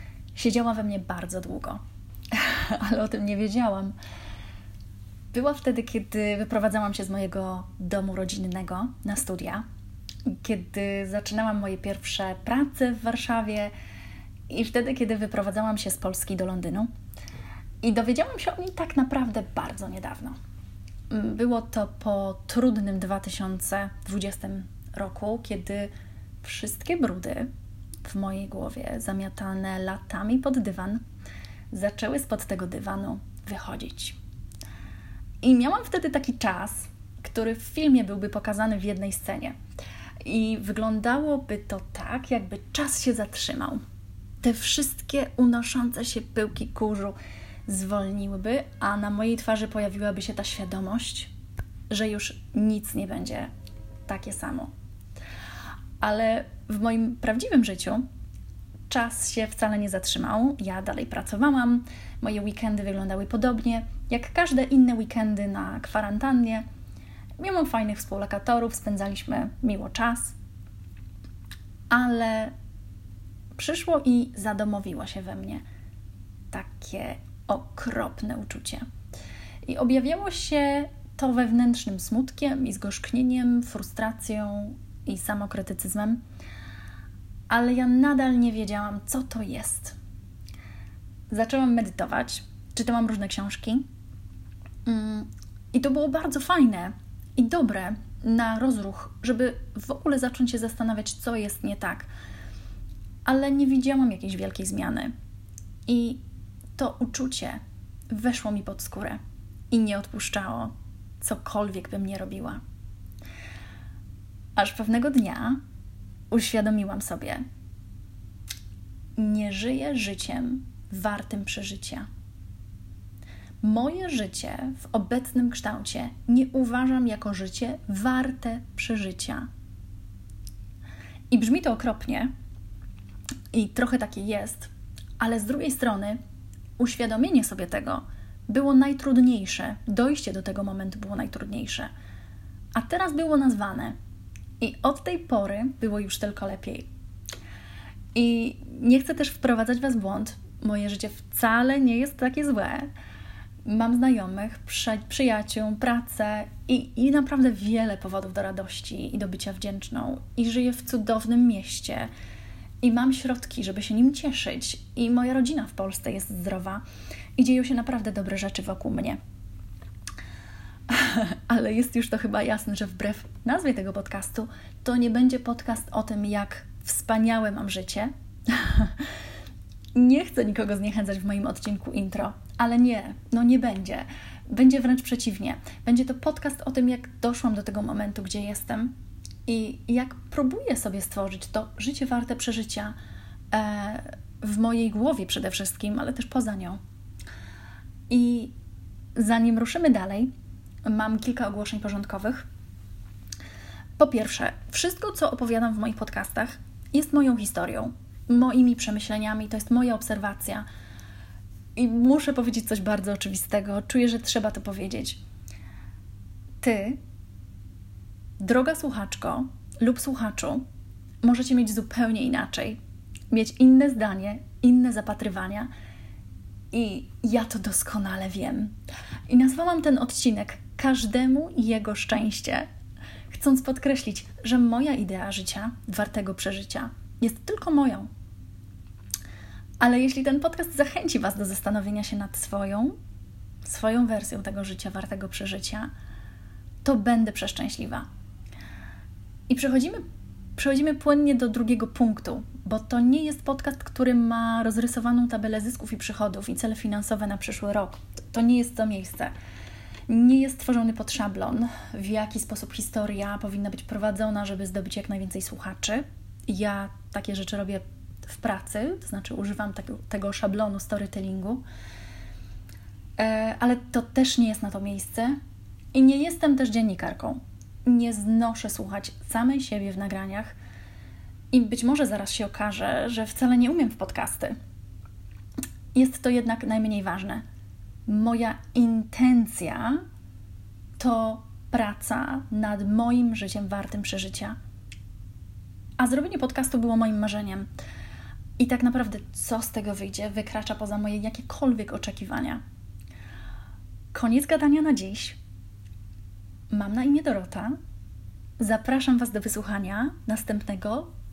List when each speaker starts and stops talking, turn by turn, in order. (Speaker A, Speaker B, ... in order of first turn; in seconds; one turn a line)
Speaker A: 0.3-1.8
Speaker A: 2.3-3.9
Speaker A: 5.3-9.6
Speaker A: 10.2-13.7
Speaker A: 14.5-16.9
Speaker A: 17.8-20.4
Speaker A: 21.1-25.9
Speaker A: 26.4-27.5
Speaker A: 28.0-31.0
Speaker A: 31.7-34.2
Speaker A: 35.4-39.5
Speaker A: 40.2-43.8
Speaker A: 44.4-47.1
Speaker A: 47.7-51.3
Speaker A: 51.9-53.5
Speaker A: 54.0-54.7
Speaker A: 56.0-58.0
Speaker A: 58.9-66.6
Speaker A: 67.4-70.3
Speaker A: 71.9-72.5
Speaker A: 73.5-75.6
Speaker A: 76.5-78.8
Speaker A: 79.6-86.2
Speaker A: 87.5-90.0
Speaker A: 91.3-93.8
Speaker A: 94.8-102.1
Speaker A: 103.2-105.1
Speaker A: 105.9-106.2
Speaker A: 106.8-109.2
Speaker A: 109.7-112.6
Speaker A: 114.5-115.6
Speaker A: 116.3-117.4
Speaker A: 119.2-122.0
Speaker A: 123.6-129.5
Speaker A: 131.3-132.3
Speaker A: 133.5-136.2
Speaker A: 136.8-141.9
Speaker A: 142.7-143.9
Speaker A: 144.6-146.9
Speaker A: 148.1-152.9
Speaker A: 153.6-162.1
Speaker A: 162.8-166.8
Speaker A: 167.4-169.2
Speaker A: 170.9-179.0
Speaker A: 179.9-188.9
Speaker A: 189.4-192.9
Speaker A: 193.5-196.8
Speaker A: 198.1-198.5
Speaker A: 199.2-200.3
Speaker A: 200.8-202.4
Speaker A: 204.0-210.7
Speaker A: 211.8-215.2
Speaker A: 216.6-217.0
Speaker A: 218.4-220.6
Speaker A: 221.2-222.8
Speaker A: 223.3-225.7
Speaker A: 226.7-228.7
Speaker A: 229.3-232.7
Speaker A: 233.3-238.1
Speaker A: 239.8-242.9
Speaker A: 243.6-245.9
Speaker A: 246.8-248.1
Speaker A: 249.5-250.0
Speaker A: 250.6-259.3
Speaker A: 260.1-271.6
Speaker A: 273.2-275.4
Speaker A: 275.9-280.5
Speaker A: 281.5-284.5
Speaker A: 285.9-287.4
Speaker A: 288.1-290.0
Speaker A: 291.0-294.6
Speaker A: 296.0-297.7
Speaker A: 298.6-302.6
Speaker A: 304.1-305.4
Speaker A: 306.7-307.8
Speaker A: 308.6-311.1